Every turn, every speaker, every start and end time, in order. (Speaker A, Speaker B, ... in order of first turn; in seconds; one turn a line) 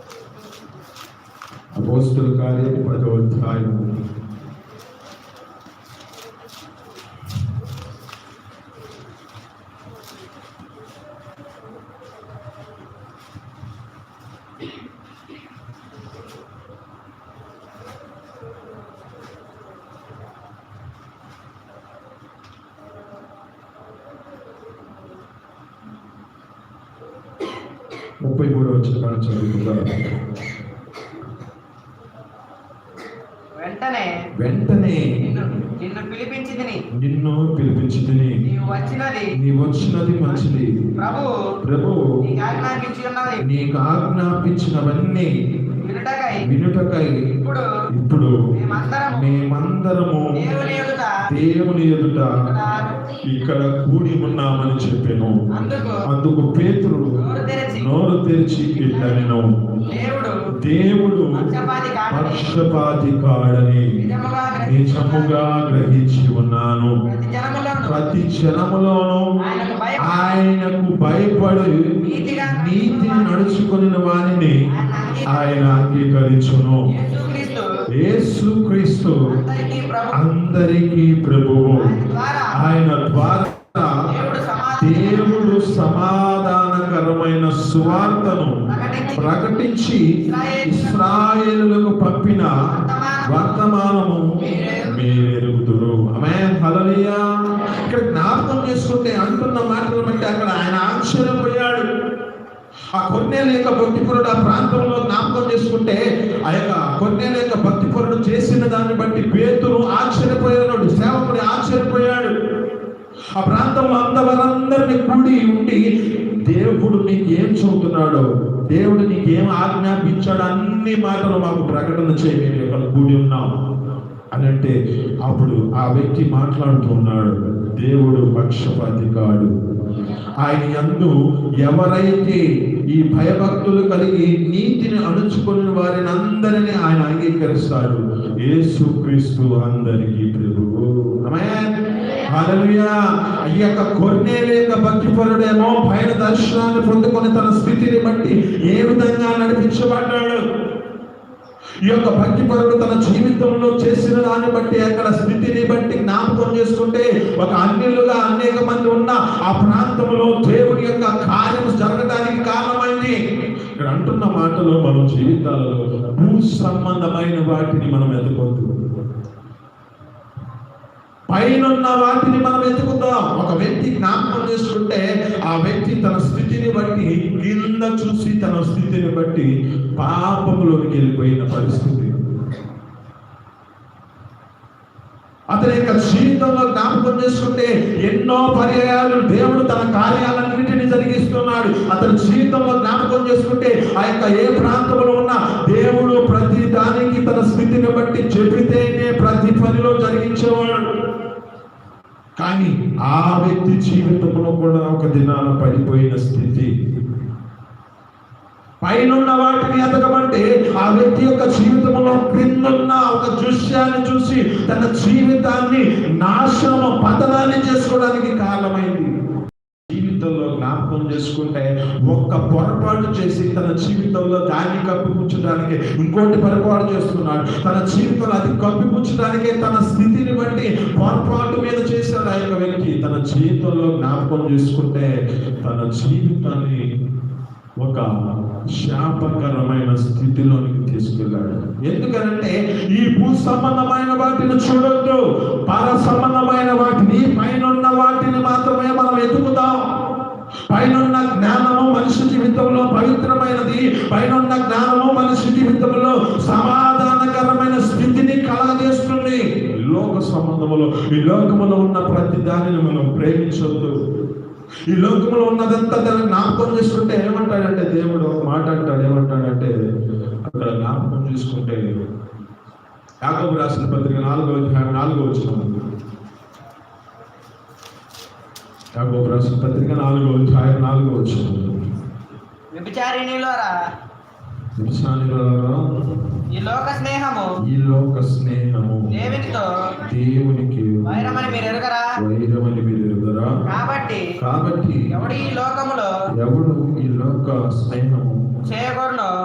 Speaker A: 1.8-3.9
Speaker A: 28.2-30.0
Speaker B: 33.6-34.1
Speaker A: 34.4-35.0
Speaker B: 35.2-36.8
Speaker A: 37.0-38.4
Speaker B: 38.5-39.3
Speaker A: 39.4-40.7
Speaker B: 40.3-41.3
Speaker A: 41.6-42.0
Speaker B: 42.2-43.4
Speaker A: 43.4-45.3
Speaker B: 45.8-46.4
Speaker A: 46.4-47.1
Speaker B: 47.4-47.7
Speaker A: 47.9-48.3
Speaker B: 48.6-49.3
Speaker A: 49.1-50.3
Speaker B: 50.4-51.2
Speaker A: 51.2-52.4
Speaker B: 52.4-53.0
Speaker A: 53.3-55.4
Speaker B: 55.6-56.0
Speaker A: 56.1-57.2
Speaker B: 57.2-57.9
Speaker A: 57.7-59.5
Speaker B: 59.9-60.3
Speaker A: 60.6-61.3
Speaker B: 61.4-62.4
Speaker A: 62.1-63.9
Speaker B: 64.0-65.4
Speaker A: 64.6-66.9
Speaker B: 67.1-68.0
Speaker A: 67.8-69.2
Speaker B: 69.4-70.2
Speaker A: 70.0-71.7
Speaker B: 72.0-73.5
Speaker A: 72.5-74.6
Speaker B: 74.7-75.5
Speaker A: 75.3-76.8
Speaker B: 76.9-77.7
Speaker A: 78.0-79.2
Speaker B: 79.3-80.2
Speaker A: 80.1-81.9
Speaker B: 81.8-82.6
Speaker A: 82.5-84.0
Speaker B: 84.1-85.5
Speaker A: 84.8-88.6
Speaker B: 88.7-89.3
Speaker A: 89.2-90.0
Speaker B: 90.2-91.2
Speaker A: 90.6-92.5
Speaker B: 92.7-93.5
Speaker A: 93.2-94.3
Speaker B: 94.4-95.1
Speaker A: 94.8-97.2
Speaker A: 97.8-101.8
Speaker A: 103.0-112.3
Speaker A: 113.4-115.8
Speaker A: 116.5-123.5
Speaker A: 124.3-129.5
Speaker A: 130.4-132.4
Speaker A: 132.9-141.7
Speaker A: 142.3-142.9
Speaker A: 143.4-150.4
Speaker A: 151.9-163.2
Speaker A: 163.8-168.7
Speaker A: 171.3-182.1
Speaker A: 185.5-200.8
Speaker A: 202.4-206.7
Speaker A: 208.8-219.1
Speaker A: 219.9-235.1
Speaker A: 235.7-236.8
Speaker A: 237.8-238.1
Speaker A: 238.8-249.8
Speaker A: 250.7-263.9
Speaker A: 264.9-269.7
Speaker A: 270.5-271.8
Speaker A: 273.2-275.7
Speaker A: 279.0-281.8
Speaker B: 282.8-283.7
Speaker A: 284.8-285.8
Speaker B: 286.5-287.5
Speaker A: 287.6-289.1
Speaker B: 289.1-289.9
Speaker A: 290.0-293.5
Speaker B: 291.1-292.1
Speaker B: 293.7-294.3
Speaker A: 294.4-295.1
Speaker B: 295.1-296.1
Speaker A: 296.4-298.4
Speaker B: 298.7-299.3